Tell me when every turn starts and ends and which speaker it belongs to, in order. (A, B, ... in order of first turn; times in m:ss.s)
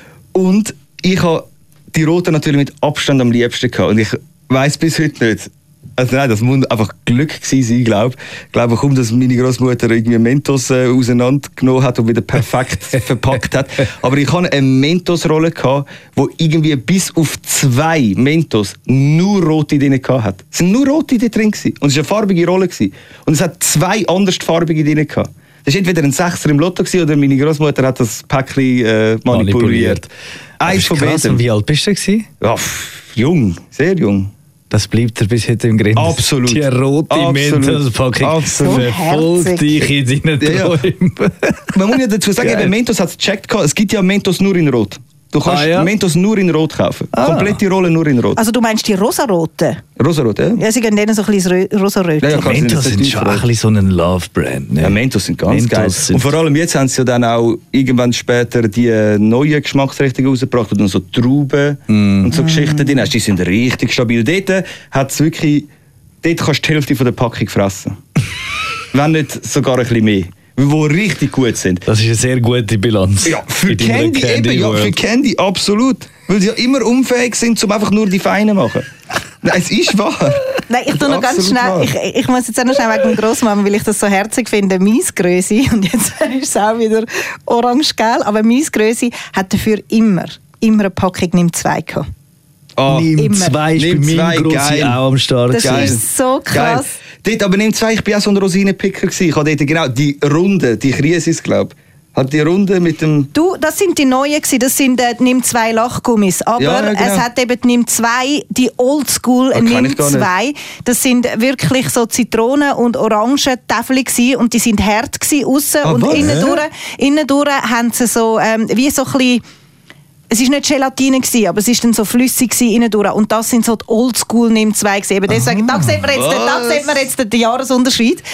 0:00.3-0:30.1 A
0:29.3-0:30.1 B
0:30.6-0:31.4 A
0:30.7-0:32.3 B
0:32.4-0:34.3 A
0:34.7-0:41.7 B
0:36.0-0:38.9 A
0:38.6-0:39.9 C
0:40.4-0:40.8 A
0:41.7-0:48.4 A
0:42.4-0:42.7 B
0:45.4-0:45.9 B
0:47.1-0:47.6 B
0:48.4-0:49.8 C
0:50.0-0:50.6 A
0:50.6-0:52.6 C
0:52.2-0:53.4 A
0:52.3-0:56.3 B
0:54.8-1:05.7 A
1:01.9-1:02.8 B
1:06.2-1:08.0 A
1:08.9-1:11.8 A
1:11.9-1:15.0 B
1:13.2-1:18.9 A
1:19.4-1:21.9 A
1:20.7-1:32.0 C
1:32.8-1:33.1 A
1:32.9-1:36.0 B
1:33.2-1:33.6 C
1:33.8-1:35.0 A
1:35.5-1:36.9 C
1:35.6-1:43.3 A
1:43.3-1:59.4 C
1:46.6-1:47.3 A
1:49.5-1:50.3 A
1:55.8-1:56.6 A
2:00.3-2:08.2 C
2:05.6-2:05.9 B
2:06.1-2:07.0 A